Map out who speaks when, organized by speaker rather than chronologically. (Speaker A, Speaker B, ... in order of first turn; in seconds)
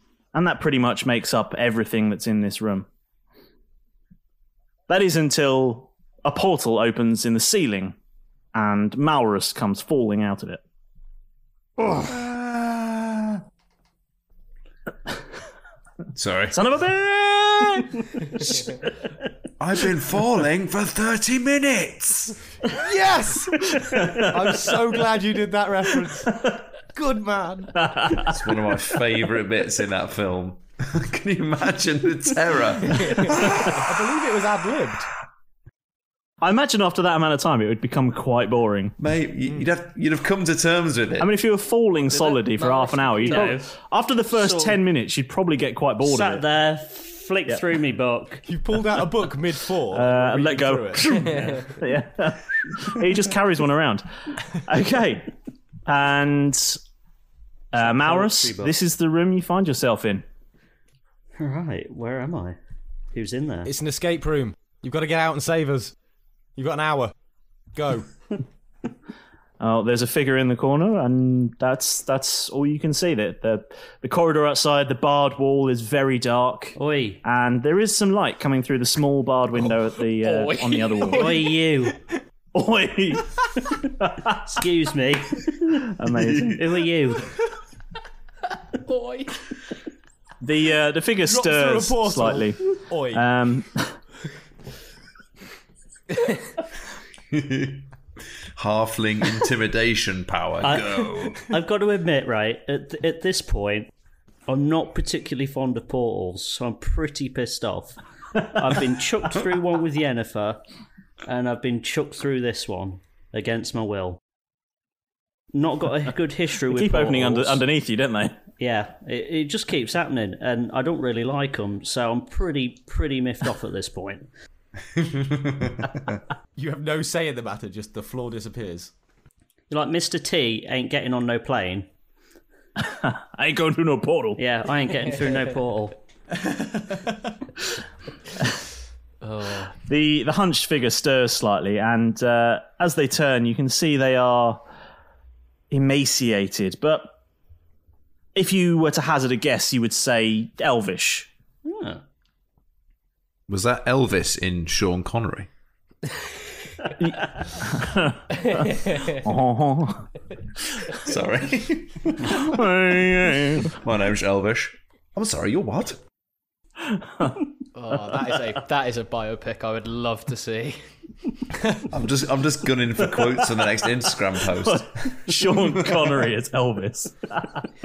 Speaker A: 0.3-2.9, 4.9-8.0, 8.5-10.6, 16.5-18.8, 23.8-24.6, 26.0-26.6, 27.8-28.6, 36.4-39.0, 41.2-46.5, 49.9-55.3, 55.9-56.8, 57.7-60.2, 69.6-81.4, 82.5-84.4, 85.8-86.9, 90.4-92.6, 93.1-94.0, 116.7-118.4, 132.8-134.4, 139.9-144.6, 145.7-147.1, 148.3-151.3, 157.0-160.1, 162.2-163.7, 166.8-167.4, 173.2-173.6, 174.6-177.6
Speaker B: 11.8-13.4, 16.1-16.6, 19.6-22.4, 28.2-33.8, 39.0-41.3, 97.3-97.9, 98.6-101.5, 125.0-126.2, 153.5-155.5, 161.0-162.5, 163.6-166.0, 171.9-175.2
Speaker C: 22.7-26.4, 26.9-27.8, 33.7-35.1, 48.5-51.5, 63.6-65.9, 66.6-67.1, 67.8-68.1, 91.3-93.2, 126.6-128.9, 136.6-137.0
Speaker D: 42.6-43.4, 80.2-81.3, 88.8-89.5, 139.2-139.7, 158.5-159.1, 167.8-170.8
Speaker E: 42.7-43.8, 44.3-44.8, 46.0-48.4, 57.8-58.7, 61.4-62.6, 63.1-63.7, 76.8-77.2, 81.1-82.0, 84.5-87.3, 100.6-103.9, 104.5-110.6, 111.2-114.2, 115.5-117.6, 118.6-124.3, 129.7-131.9, 134.4-136.0, 151.7-152.0